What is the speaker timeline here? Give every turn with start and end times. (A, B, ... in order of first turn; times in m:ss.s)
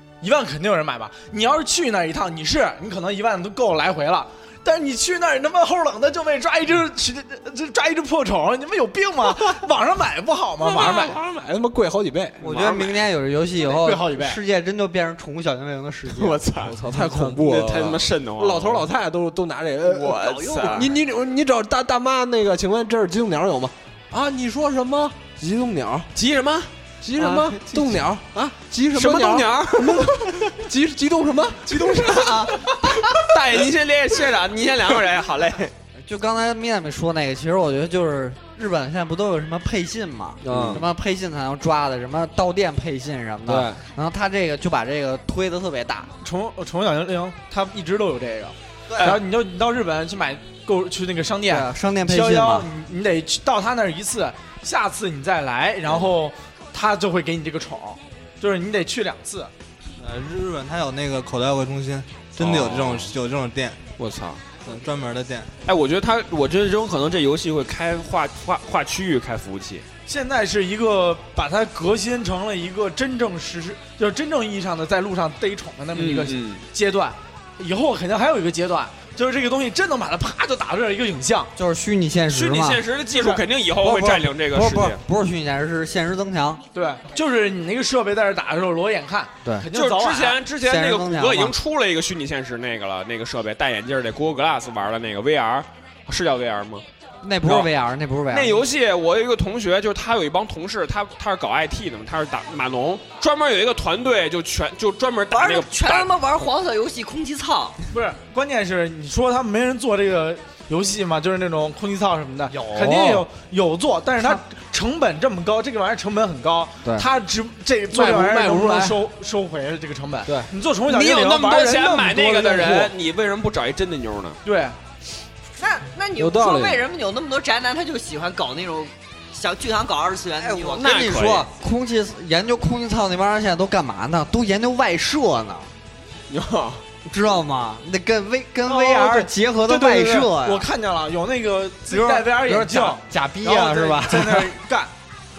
0:00.2-0:11.2 A
0:10.7-0:11.2 B
0:10.7-0:12.4 C
0:12.4-0:16.4 D
0:12.4-0:13.0 B
0:13.6-0:14.4 A
0:16.1-0:18.9 B
0:16.6-0:26.1 C
0:19.8-0:20.9 B
0:20.0-0:21.0 E
0:26.2-0:28.0 B
0:27.0-0:33.0 C
0:28.9-0:30.6 B
0:31.7-0:35.7 B
0:36.0-0:46.1 D
0:40.4-0:40.9 C
0:43.5-0:43.8 C
0:46.2-0:59.5 A
0:51.5-0:52.7 D
1:00.0-1:03.8 F
1:02.4-1:03.1 B
1:04.0-1:04.4 B
1:04.6-1:05.5 F
1:05.6-1:09.8 B
1:10.1-1:21.5 A
1:15.9-1:16.6 B
1:21.6-1:22.8 D
1:22.3-1:25.0 B
1:23.1-1:23.4 A
1:23.8-1:26.6 D
1:26.7-1:30.4 A
1:29.7-1:36.8 B
1:30.6-1:31.6 D
1:37.2-1:38.7 D
1:37.4-1:37.7 B
1:38.3-1:46.1 B
1:45.3-1:47.8 E
1:47.9-2:02.9 A
1:52.5-1:53.1 D
1:52.7-1:53.3 C
1:57.9-1:59.0 C
2:00.3-2:00.5 C
2:00.9-2:04.4 B
2:04.4-2:04.8 A
2:05.6-2:10.8 E
2:06.2-2:06.8 C
2:10.4-2:15.7 D
2:10.8-2:11.5 B
2:16.3-2:16.8 B
2:17.0-2:20.7 D
2:18.6-2:24.9 A
2:21.9-2:24.6 D